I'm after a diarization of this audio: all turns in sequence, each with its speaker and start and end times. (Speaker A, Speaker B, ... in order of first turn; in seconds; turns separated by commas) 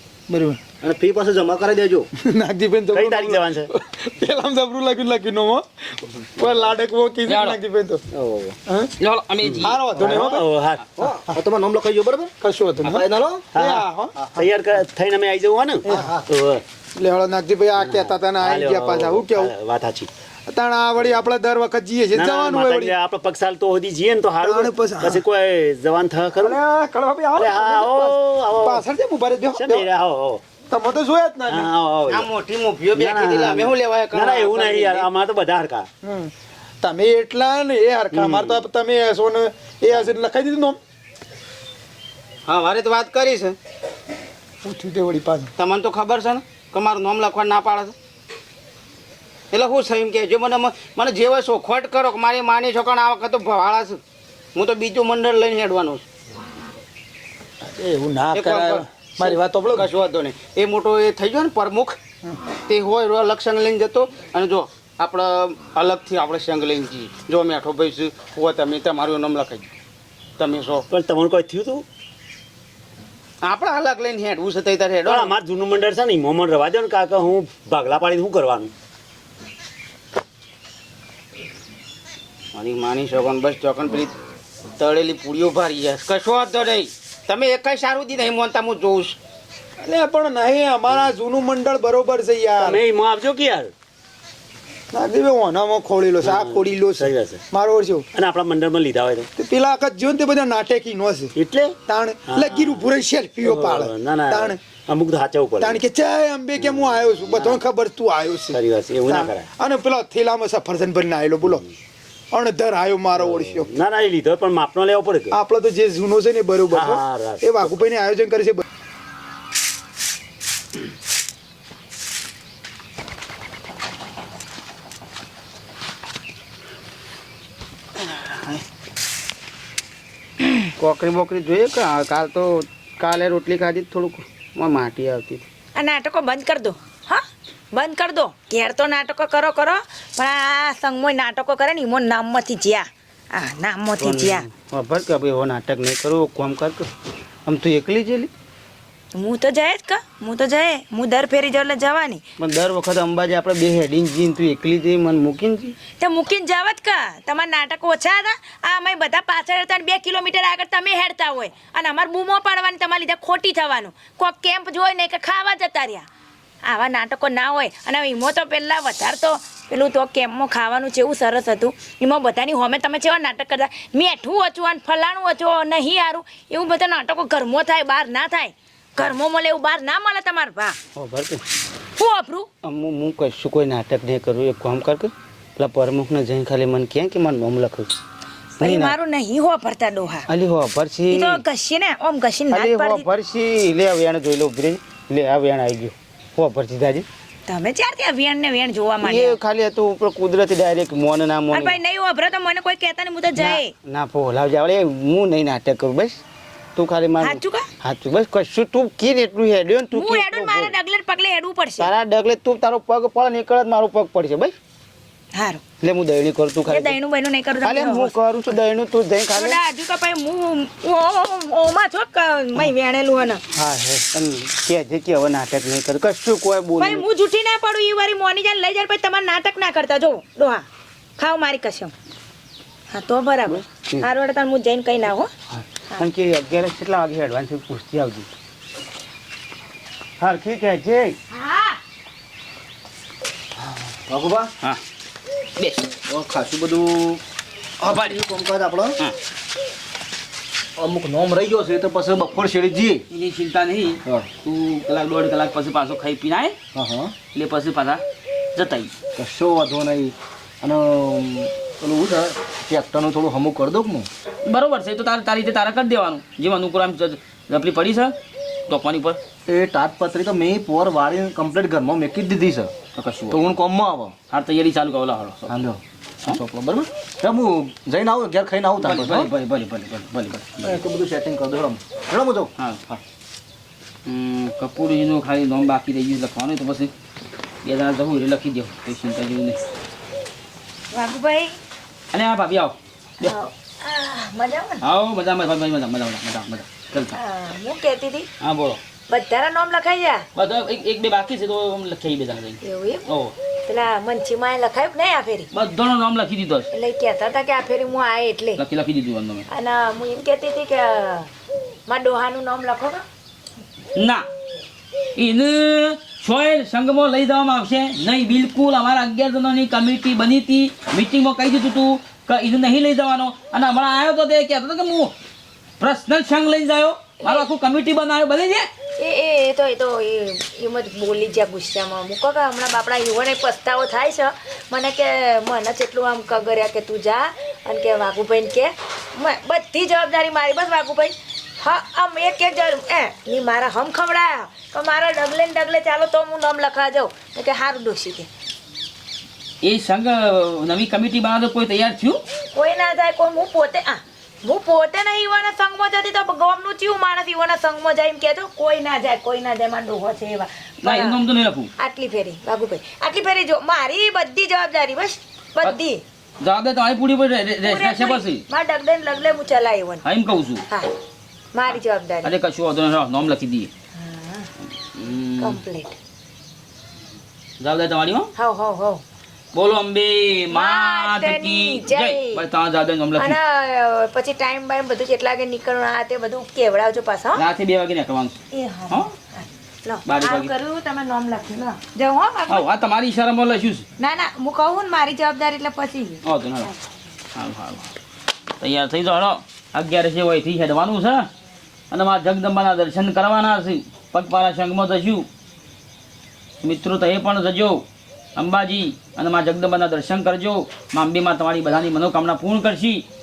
Speaker A: 0.3-0.6, Speaker B: 0.8-2.1, Speaker A: 2.2-8.0, Speaker C: 2.9-3.7, Speaker D: 7.3-7.6, Speaker D: 9.0-9.8, Speaker C: 9.4-10.8, Speaker A: 9.6-10.5, Speaker B: 11.0-12.3, Speaker A: 12.4-13.0, Speaker B: 12.8-13.5, Speaker C: 13.5-16.6, Speaker A: 13.6-14.2, Speaker B: 14.2-14.5, Speaker B: 15.9-16.2, Speaker A: 17.0-19.5, Speaker C: 17.8-20.1, Speaker A: 20.5-22.9, Speaker C: 22.1-26.6, Speaker A: 24.4-25.2, Speaker A: 26.4-29.9, Speaker C: 27.3-28.9, Speaker C: 29.5-30.4, Speaker A: 30.7-31.7, Speaker C: 31.5-32.3, Speaker E: 32.1-35.1, Speaker C: 33.0-35.9, Speaker A: 36.0-40.8, Speaker C: 38.1-38.6, Speaker E: 42.5-43.6, Speaker A: 44.6-45.5, Speaker E: 45.6-48.0, Speaker E: 49.5-54.0, Speaker E: 54.5-56.0, Speaker A: 57.7-59.9, Speaker E: 58.3-62.0, Speaker E: 62.7-69.7, Speaker E: 70.4-70.9, Speaker C: 70.9-71.8, Speaker E: 73.4-75.3, Speaker C: 75.1-78.7, Speaker E: 82.5-84.1, Speaker E: 84.8-89.2, Speaker A: 89.8-92.8, Speaker C: 92.6-93.7, Speaker A: 94.9-98.1, Speaker C: 96.2-97.4, Speaker C: 98.1-99.3, Speaker A: 99.4-104.6, Speaker C: 101.3-101.8, Speaker C: 102.3-102.9, Speaker C: 103.4-105.8, Speaker A: 105.6-111.6, Speaker C: 106.6-107.6, Speaker C: 108.5-109.5, Speaker A: 112.3-113.7, Speaker C: 113.2-115.4, Speaker A: 115.3-118.6, Speaker C: 116.7-117.8, Speaker E: 128.0-128.6, Speaker E: 130.8-135.4, Speaker F: 135.8-144.5, Speaker E: 144.0-146.9, Speaker E: 147.5-148.3, Speaker F: 149.1-152.2, Speaker E: 152.4-155.8, Speaker F: 156.0-166.1, Speaker F: 166.7-180.8, Speaker E: 180.9-181.4, Speaker F: 182.0-182.5, Speaker E: 182.6-187.9, Speaker F: 188.6-190.3, Speaker E: 188.6-188.9, Speaker E: 190.3-191.4, Speaker F: 191.1-193.1, Speaker E: 192.5-197.1, Speaker F: 197.5-199.4, Speaker E: 199.0-201.8, Speaker F: 201.5-203.7, Speaker E: 203.4-206.2, Speaker E: 206.8-210.8, Speaker F: 207.2-207.7, Speaker F: 209.9-211.9, Speaker E: 211.8-214.5, Speaker F: 215.3-215.6, Speaker E: 215.8-217.0, Speaker F: 216.7-218.1, Speaker E: 217.6-219.6, Speaker F: 219.3-223.4, Speaker E: 223.6-227.1, Speaker F: 226.8-230.7, Speaker F: 231.2-231.9, Speaker F: 232.9-235.3, Speaker E: 233.5-234.1, Speaker E: 235.6-238.3, Speaker E: 240.2-241.2, Speaker F: 241.3-241.8, Speaker B: 244.1-244.5, Speaker D: 245.6-245.9, Speaker B: 246.1-247.2, Speaker B: 247.8-249.0, Speaker D: 247.9-248.2, Speaker B: 250.8-253.0, Speaker D: 253.1-256.6, Speaker B: 256.7-257.1, Speaker D: 257.3-258.0, Speaker D: 258.6-258.9, Speaker B: 259.2-264.1, Speaker D: 264.5-268.1, Speaker D: 268.7-269.2, Speaker B: 269.5-272.7, Speaker D: 273.0-273.4, Speaker B: 273.3-274.1, Speaker D: 274.3-275.6, Speaker B: 275.5-279.3, Speaker D: 278.8-280.8, Speaker B: 280.6-283.0, Speaker D: 284.1-286.9, Speaker D: 287.6-289.6, Speaker F: 290.9-291.6, Speaker D: 292.1-293.3, Speaker F: 293.2-294.8, Speaker D: 294.8-297.2, Speaker F: 297.1-298.3, Speaker D: 298.4-298.8, Speaker F: 299.1-300.3, Speaker D: 300.4-303.3, Speaker F: 302.6-303.1, Speaker F: 303.7-305.5, Speaker D: 305.5-306.7, Speaker F: 306.7-308.6, Speaker D: 308.6-309.4, Speaker F: 309.5-311.3, Speaker F: 311.9-313.0, Speaker D: 314.0-314.3, Speaker D: 315.2-325.1, Speaker D: 325.8-328.7, Speaker F: 329.0-348.3, Speaker D: 349.6-352.2, Speaker F: 352.6-361.2, Speaker D: 360.8-361.7, Speaker F: 361.8-366.0, Speaker D: 366.4-368.4, Speaker F: 367.6-370.0, Speaker D: 370.0-370.6, Speaker F: 371.5-372.3, Speaker D: 372.2-373.7, Speaker F: 374.0-374.5, Speaker D: 374.9-375.6, Speaker F: 375.4-375.9, Speaker D: 377.6-378.3, Speaker F: 378.4-379.0, Speaker D: 379.5-383.4, Speaker F: 380.5-382.4, Speaker F: 383.2-387.4, Speaker D: 387.4-388.4, Speaker F: 388.5-392.7, Speaker D: 390.1-390.5, Speaker D: 392.5-393.9, Speaker F: 394.0-396.8, Speaker D: 396.2-396.7, Speaker D: 397.4-397.9, Speaker D: 398.6-401.3, Speaker D: 401.9-405.3, Speaker D: 406.6-407.8, Speaker D: 408.4-413.0